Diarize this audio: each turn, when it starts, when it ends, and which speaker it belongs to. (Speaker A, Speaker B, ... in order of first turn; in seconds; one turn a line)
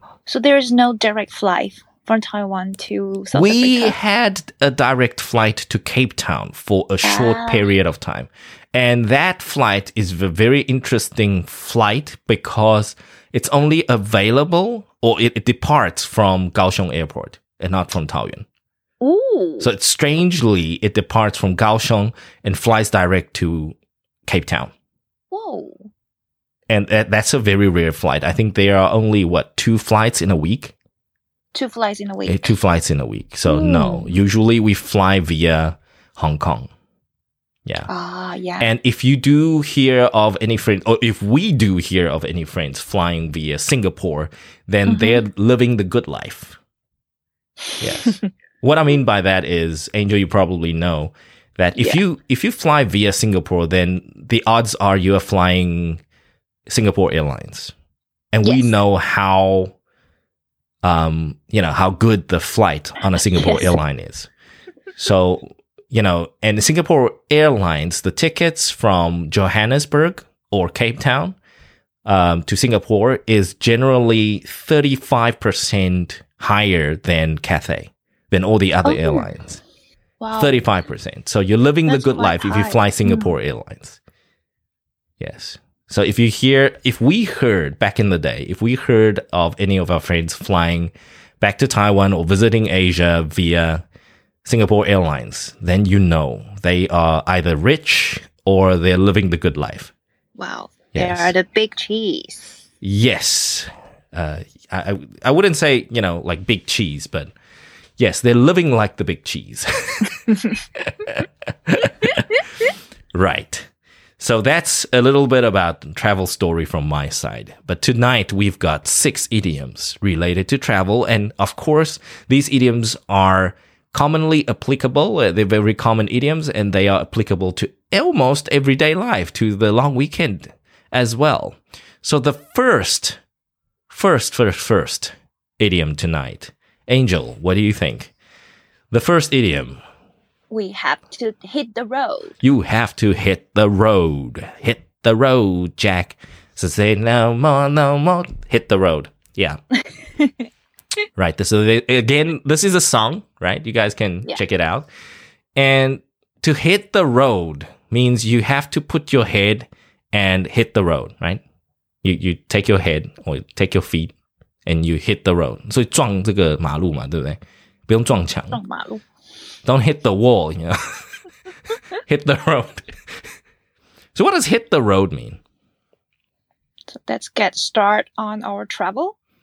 Speaker A: 0.3-4.0
Speaker B: 3.3-18.5
Speaker A: 7.0-7.7
Speaker A: 19.0-19.7
Speaker B: 19.6-24.7
Speaker A: 25.3-25.9
Speaker B: 26.7-30.7
Speaker A: 31.5-32.5
Speaker B: 32.3-36.7
Speaker A: 33.5-34.1
Speaker A: 37.9-38.7
Speaker B: 38.6-46.6
Speaker A: 44.9-45.2
Speaker B: 47.8-56.0
Speaker B: 56.7-57.7
Speaker B: 58.3-59.8
Speaker A: 58.4-58.8
Speaker B: 60.8-64.3
Speaker A: 63.1-63.8
Speaker B: 65.0-71.4
Speaker B: 72.0-79.6
Speaker A: 78.8-79.3
Speaker A: 80.2-80.6
Speaker B: 80.3-84.0
Speaker A: 81.9-83.3
Speaker B: 85.2-93.8
Speaker B: 94.5-99.9
Speaker A: 100.4-102.5
Speaker B: 100.9-101.3
Speaker B: 102.8-107.3
Speaker B: 108.0-112.4
Speaker B: 113.1-133.2
Speaker B: 133.9-138.1
Speaker B: 138.9-139.8
Speaker A: 140.5-142.4
Speaker B: 142.4-149.6
Speaker B: 151.2-154.9
Speaker B: 155.6-161.4
Speaker B: 162.0-164.1
Speaker B: 164.7-168.6
Speaker A: 168.5-169.0
Speaker B: 169.7-171.1
Speaker B: 172.0-172.9
Speaker B: 174.2-175.4
Speaker A: 176.9-179.2